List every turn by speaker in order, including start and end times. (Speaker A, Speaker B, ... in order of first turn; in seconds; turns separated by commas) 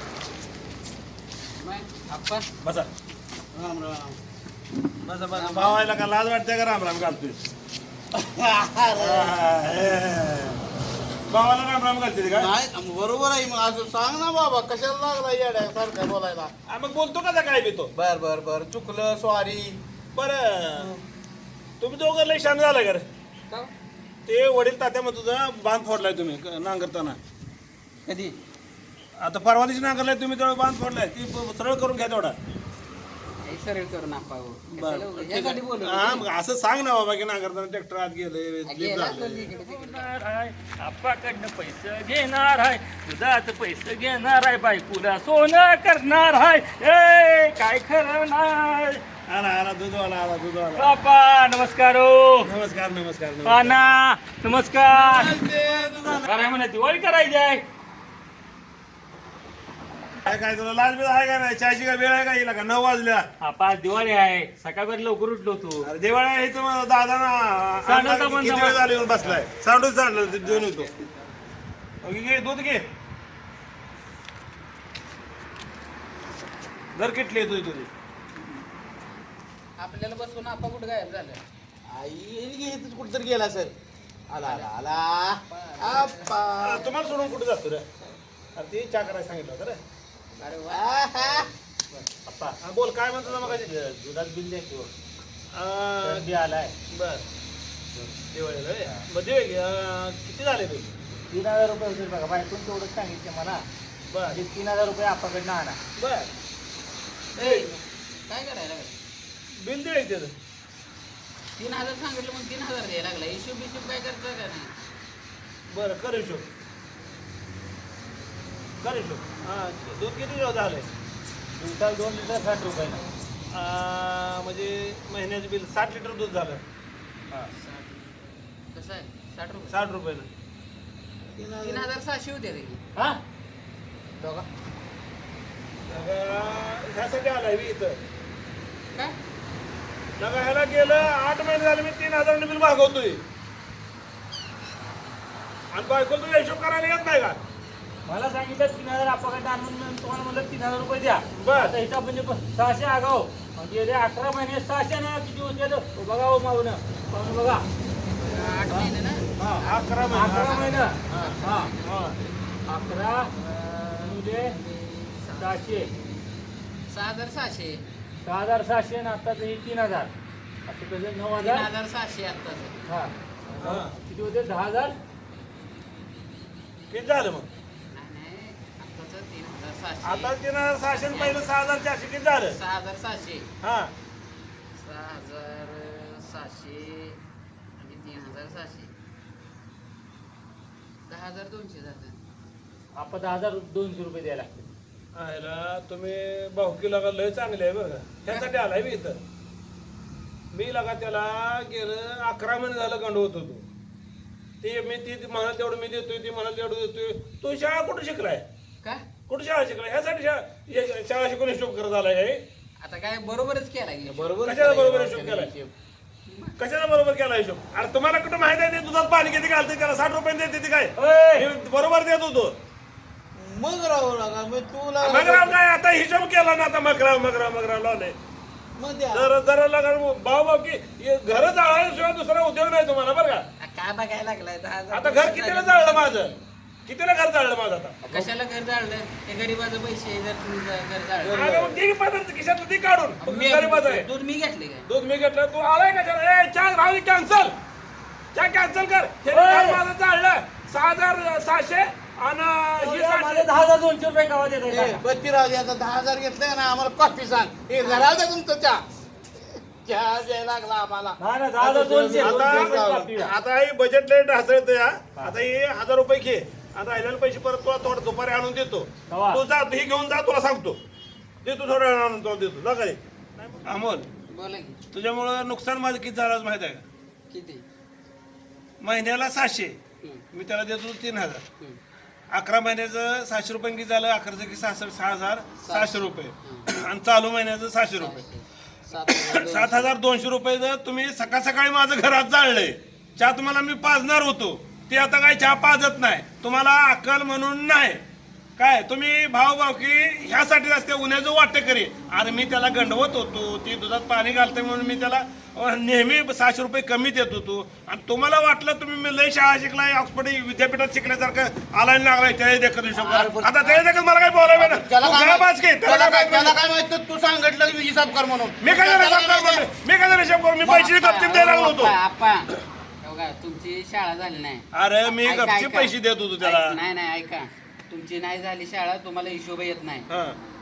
Speaker A: 1.6-2.5, Speaker B: 2.6-2.9, Speaker C: 3.5-4.2, Speaker B: 5.0-7.4, Speaker A: 5.3-5.9, Speaker C: 8.1-9.4, Speaker B: 9.0-10.6, Speaker B: 11.3-12.5, Speaker C: 12.3-16.5, Speaker B: 16.7-17.9, Speaker C: 17.9-19.8, Speaker B: 20.1-20.9, Speaker C: 20.8-21.0, Speaker B: 21.8-23.1, Speaker B: 24.3-27.2, Speaker A: 28.1-28.4, Speaker B: 29.2-32.4, Speaker A: 33.5-36.2, Speaker B: 34.8-39.5, Speaker A: 38.7-40.1, Speaker D: 39.3-49.0, Speaker B: 49.3-50.9, Speaker D: 50.8-52.5, Speaker B: 52.4-54.0, Speaker D: 53.4-55.4, Speaker C: 54.9-56.3, Speaker D: 56.1-57.6, Speaker B: 60.3-63.3, Speaker D: 63.4-65.9, Speaker B: 65.8-70.9, Speaker D: 67.8-68.8, Speaker B: 72.0-72.8, Speaker B: 77.0-77.9, Speaker A: 79.8-81.4, Speaker C: 81.9-83.7, Speaker C: 84.3-86.9, Speaker A: 84.4-84.8, Speaker A: 85.5-86.4, Speaker B: 86.6-87.8, Speaker B: 88.6-89.8, Speaker A: 90.4-92.0, Speaker C: 90.7-91.5, Speaker D: 92.1-92.6, Speaker B: 92.6-93.7, Speaker D: 93.3-94.9, Speaker B: 95.5-96.3, Speaker D: 96.0-96.7, Speaker B: 96.9-97.2, Speaker B: 98.3-100.9, Speaker D: 101.3-103.6, Speaker B: 104.1-104.4, Speaker D: 104.3-105.8, Speaker B: 106.0-106.3, Speaker A: 107.4-109.0, Speaker B: 107.4-107.7, Speaker B: 109.5-110.3, Speaker A: 111.6-114.7, Speaker B: 115.7-116.5, Speaker B: 118.8-120.9, Speaker D: 121.6-123.0, Speaker B: 123.5-126.6, Speaker A: 127.5-129.8, Speaker B: 129.7-130.3, Speaker C: 131.3-132.0, Speaker A: 131.6-132.8, Speaker B: 135.9-138.0, Speaker B: 140.2-143.2, Speaker B: 145.7-147.4, Speaker D: 148.1-157.7, Speaker B: 151.4-151.8, Speaker A: 158.1-162.2, Speaker B: 159.4-161.3, Speaker D: 160.1-161.7, Speaker B: 161.8-162.2, Speaker D: 162.7-163.3, Speaker A: 163.3-166.2, Speaker D: 164.0-164.6, Speaker D: 165.4-165.9, Speaker A: 166.9-167.8, Speaker D: 168.2-170.1, Speaker D: 170.7-171.7, Speaker A: 171.4-172.8, Speaker D: 172.9-173.1, Speaker B: 173.6-174.0, Speaker D: 173.8-175.0, Speaker B: 176.9-177.5, Speaker A: 177.9-181.5, Speaker B: 180.0-182.6, Speaker A: 182.5-183.5, Speaker B: 183.6-183.9, Speaker A: 184.8-187.2, Speaker A: 187.8-188.9, Speaker A: 191.1-192.2, Speaker D: 193.0-194.7, Speaker B: 195.2-199.2, Speaker B: 200.5-203.7, Speaker B: 204.6-208.4, Speaker B: 209.3-212.4, Speaker A: 212.8-214.4, Speaker C: 214.1-215.7, Speaker B: 214.4-215.5, Speaker A: 216.3-216.6, Speaker B: 216.6-222.6, Speaker D: 221.0-221.5, Speaker C: 223.3-225.6, Speaker B: 225.0-228.2, Speaker C: 228.8-229.3, Speaker B: 229.1-233.4, Speaker A: 233.6-236.3, Speaker B: 234.9-236.3, Speaker B: 236.9-238.0, Speaker A: 238.1-241.4, Speaker C: 241.2-241.8, Speaker B: 241.3-244.1, Speaker A: 243.2-244.8, Speaker B: 244.9-247.6, Speaker B: 248.3-253.5, Speaker D: 249.3-249.8, Speaker D: 252.8-255.0, Speaker C: 254.7-258.8, Speaker A: 257.8-258.1, Speaker C: 259.6-263.1, Speaker D: 261.2-263.4, Speaker B: 262.2-270.8, Speaker D: 269.1-269.4, Speaker B: 271.4-274.1, Speaker A: 274.3-274.8, Speaker B: 274.9-276.9, Speaker A: 277.3-277.6, Speaker B: 278.8-279.8, Speaker B: 280.3-281.4, Speaker B: 282.3-288.2, Speaker A: 285.6-286.7, Speaker A: 288.0-289.9, Speaker B: 289.1-298.0, Speaker B: 298.6-316.6, Speaker C: 312.9-313.8, Speaker C: 314.5-319.7, Speaker B: 318.6-321.9, Speaker A: 320.6-322.5, Speaker A: 323.0-330.1, Speaker B: 324.7-326.8, Speaker B: 330.1-330.4